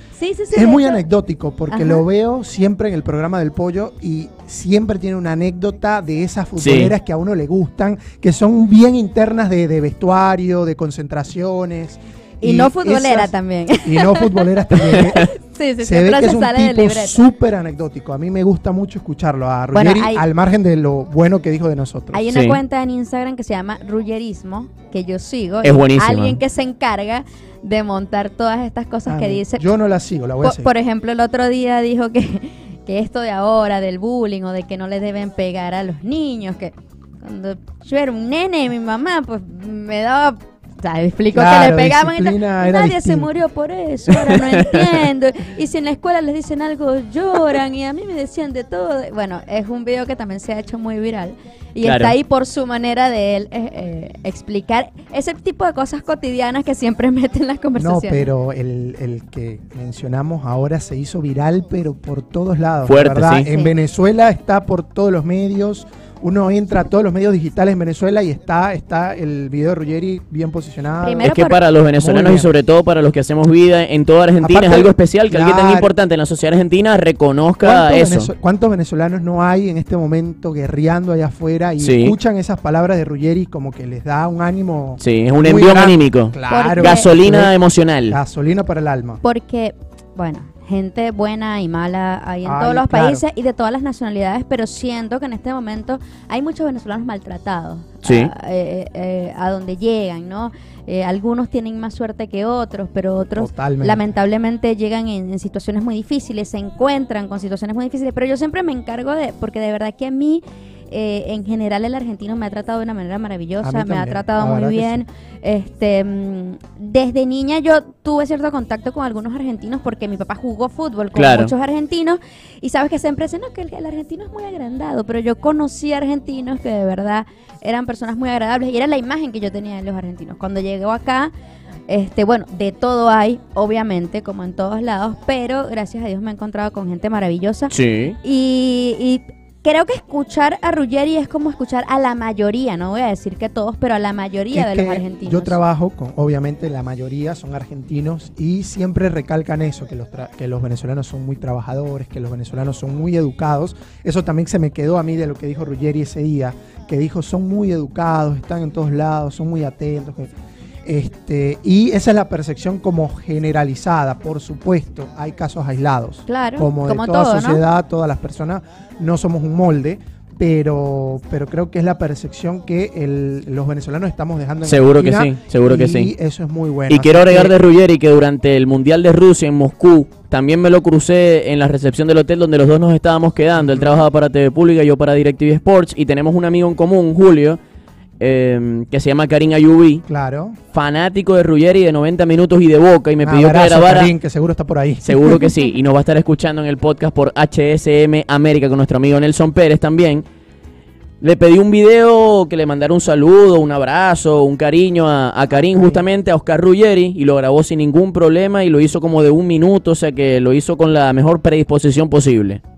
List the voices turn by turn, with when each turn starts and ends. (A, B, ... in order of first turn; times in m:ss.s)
0:00.2-0:01.0 A
0:00.5-0:15.3 B
0:01.7-0:02.0 A
0:06.6-0:06.9 C
0:12.4-0:17.2 A
0:15.8-0:22.2 B
0:19.7-0:20.2 A
0:22.1-0:29.7 A
0:22.3-0:22.6 C
0:25.6-0:26.4 C
0:29.1-0:30.7 B
0:30.4-0:58.3 A
0:41.3-0:43.3 B
0:44.2-0:45.0 C
0:51.8-0:52.1 C
0:57.8-1:11.3 B
1:02.9-1:03.5 C
1:03.5-1:03.7 A
1:11.0-1:11.6 A
1:11.2-1:18.3 C
1:12.0-1:12.5 B
1:14.4-1:15.9 B
1:17.6-1:27.5 B
1:21.8-1:22.2 C
1:25.0-1:28.2 C
1:26.5-1:27.1 A
1:28.1-1:29.2 B
1:29.2-2:11.3 A
1:32.4-1:33.2 B
1:38.0-1:38.3 C
1:43.3-1:44.0 B
1:53.6-1:55.0 B
2:01.2-2:01.5 C
2:11.9-2:25.6 A
2:17.7-2:18.2 C
2:24.5-2:40.3 B
2:40.8-2:57.6 B
2:46.3-2:47.6 A
2:54.6-2:56.1 C
2:56.9-3:07.6 C
3:03.6-3:03.9 B
3:08.2-3:10.0 C
3:10.1-3:10.6 B
3:10.7-3:14.1 C
3:13.2-3:15.4 B
3:15.0-3:20.2 C
3:21.2-3:32.6 C
3:25.7-3:26.0 B